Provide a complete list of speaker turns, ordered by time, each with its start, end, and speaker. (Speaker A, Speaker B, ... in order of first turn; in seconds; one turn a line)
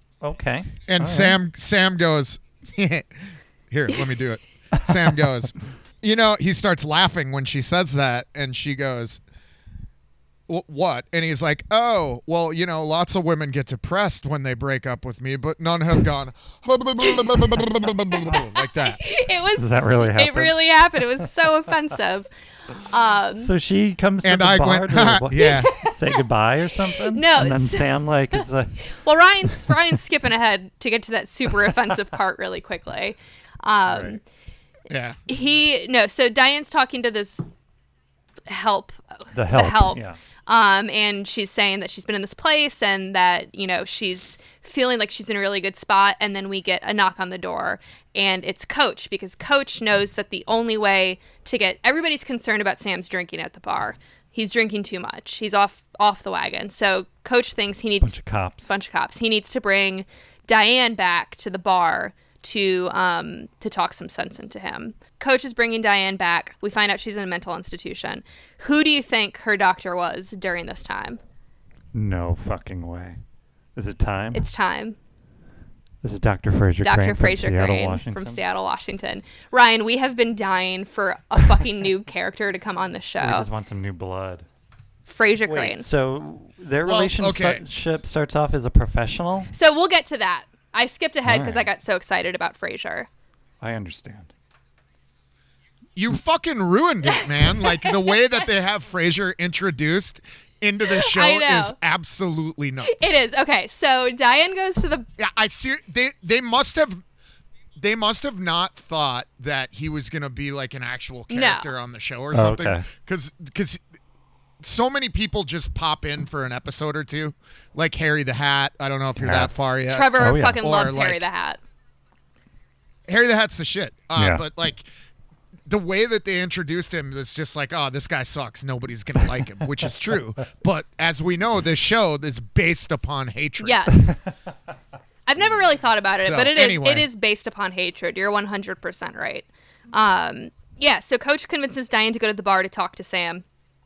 Speaker A: 0.2-1.4
Speaker B: 0.9-9.2
Speaker B: 10.5-19.0
Speaker C: 18.1-23.5
Speaker A: 19.6-20.5
Speaker A: 23.4-29.0
Speaker B: 24.2-25.7
Speaker C: 25.4-26.2
Speaker C: 26.9-34.2
Speaker A: 33.9-34.2
Speaker B: 34.9-35.2
Speaker C: 35.3-37.4
Speaker C: 38.5-71.2
Speaker A: 39.3-40.2
Speaker A: 58.0-58.7
Speaker A: 71.9-73.2
Speaker A: 73.8-74.5
Speaker C: 74.3-75.0
Speaker A: 76.0-78.4
Speaker C: 76.8-83.5
Speaker A: 83.2-84.4
Speaker C: 85.0-85.9
Speaker A: 85.5-89.5
Speaker B: 86.8-87.6
Speaker C: 89.5-93.1
Speaker A: 91.2-91.7
Speaker A: 93.6-94.3
Speaker B: 96.0-103.1
Speaker C: 97.1-98.1
Speaker C: 100.9-101.8
Speaker C: 102.8-105.1
Speaker B: 105.2-107.0
Speaker B: 107.8-113.8
Speaker C: 111.3-111.7
Speaker A: 112.3-112.8
Speaker B: 114.6-121.2
Speaker A: 119.2-119.7
Speaker C: 119.9-121.6
Speaker A: 120.2-120.6
Speaker B: 123.1-124.8
Speaker A: 124.2-124.4
Speaker B: 125.7-133.8
Speaker C: 133.6-134.2
Speaker C: 135.3-143.4
Speaker B: 136.2-137.1